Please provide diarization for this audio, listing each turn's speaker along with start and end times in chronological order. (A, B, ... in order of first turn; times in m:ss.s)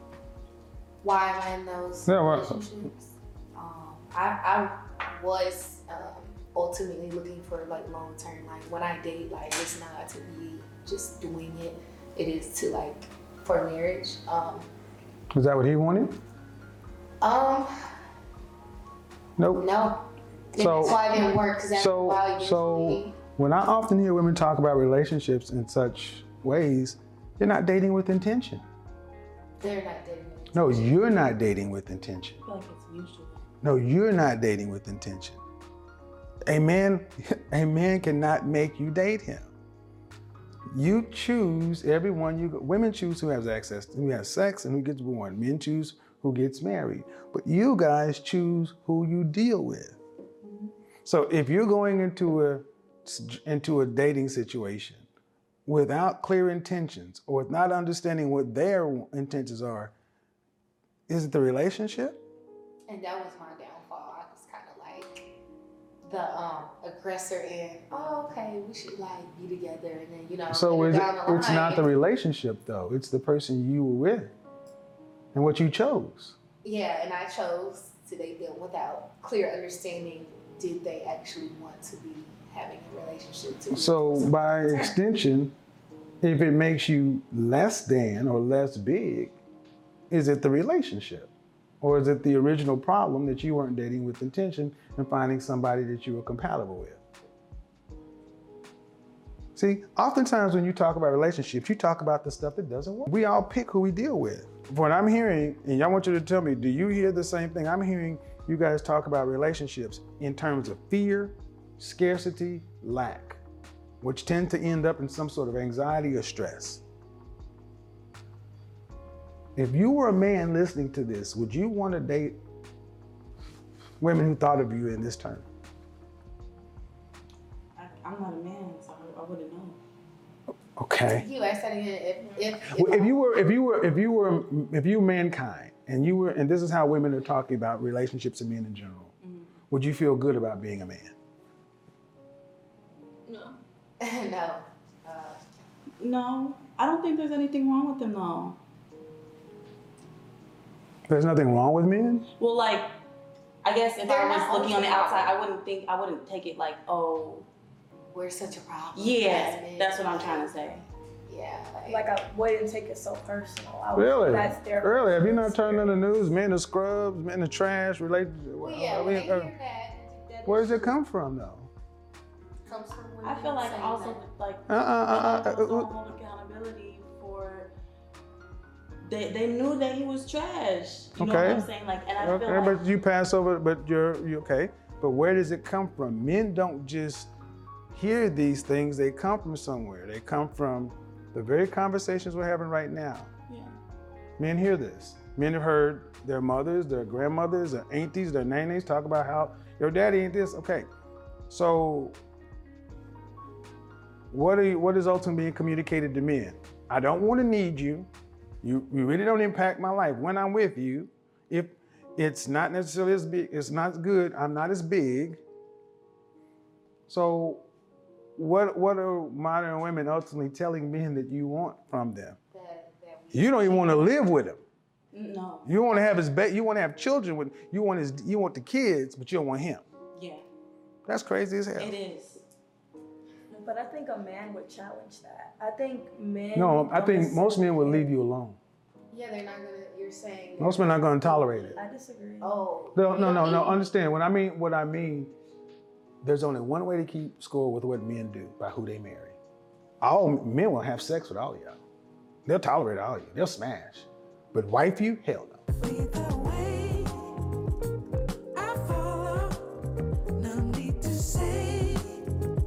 0:01.0-0:14.7 A
0:02.0-0:02.6 B
0:15.3-0:16.2 B
0:17.2-0:17.7 A
0:19.4-0:19.6 B
0:19.6-0:23.2 A
0:20.6-0:21.0 B
0:21.7-0:28.6 B
0:29.6-0:31.0 A
0:30.5-0:32.4 B
0:32.4-0:33.4 C
0:33.6-0:35.4 B
0:36.5-0:39.5 B
0:40.7-0:50.0 B
0:51.0-0:55.0 B
0:55.6-0:59.9 B
1:01.1-1:02.2 B
1:02.9-1:05.3 A
1:06.0-1:11.9 A
1:10.5-1:14.3 B
1:15.3-1:16.4 B
1:16.6-1:24.9 A
1:23.7-1:25.5 B
1:26.2-1:29.4 B
1:30.1-1:37.0 B
1:39.5-1:53.4 B
1:54.0-1:56.8 B
1:59.6-2:02.4 B
2:04.0-2:05.4 B
2:07.8-2:09.8 C
2:10.8-2:11.2 B
2:11.1-2:13.2 A
2:12.7-2:19.1 B
2:19.2-2:19.5 C
2:19.7-2:21.1 B
2:24.0-2:25.4 A
2:26.0-2:28.6 C
2:31.1-2:32.3 B
2:32.4-2:32.9 C
2:33.6-2:37.5 C
2:34.0-2:35.3 A
2:38.1-2:42.1 A
2:38.9-2:40.8 C
2:41.8-2:46.2 D
2:43.9-2:49.5 B
2:48.6-2:51.0 A
2:50.4-2:51.7 B
2:52.6-2:54.2 A
2:53.2-2:57.7 C
2:54.7-2:55.9 B
2:59.0-3:02.8 C
3:01.2-3:01.7 B
3:02.2-3:07.3 B
3:07.9-3:13.3 B
3:13.5-3:13.7 C
3:14.4-3:20.9 B
3:21.5-3:22.2 B
3:24.3-3:28.1 B
3:28.6-3:35.4 B
3:37.1-3:37.6 B
3:38.4-3:42.4 B
3:42.5-3:44.2 A
3:43.3-3:44.6 B
3:45.1-3:45.7 C
3:45.6-3:49.8 B
3:50.1-3:50.4 C
3:51.1-3:52.0 B
3:51.8-3:52.4 C
3:53.5-3:58.1 D
3:56.5-3:58.6 B
3:59.1-4:01.8 A
4:00.6-4:01.8 B
4:01.8-4:02.6 D
4:02.4-4:03.9 A
4:02.9-4:05.3 B
4:06.2-4:09.4 B
4:10.0-4:11.8 B
4:12.4-4:15.6 B
4:15.8-4:17.4 E
4:18.5-4:19.8 E
4:20.3-4:22.3 E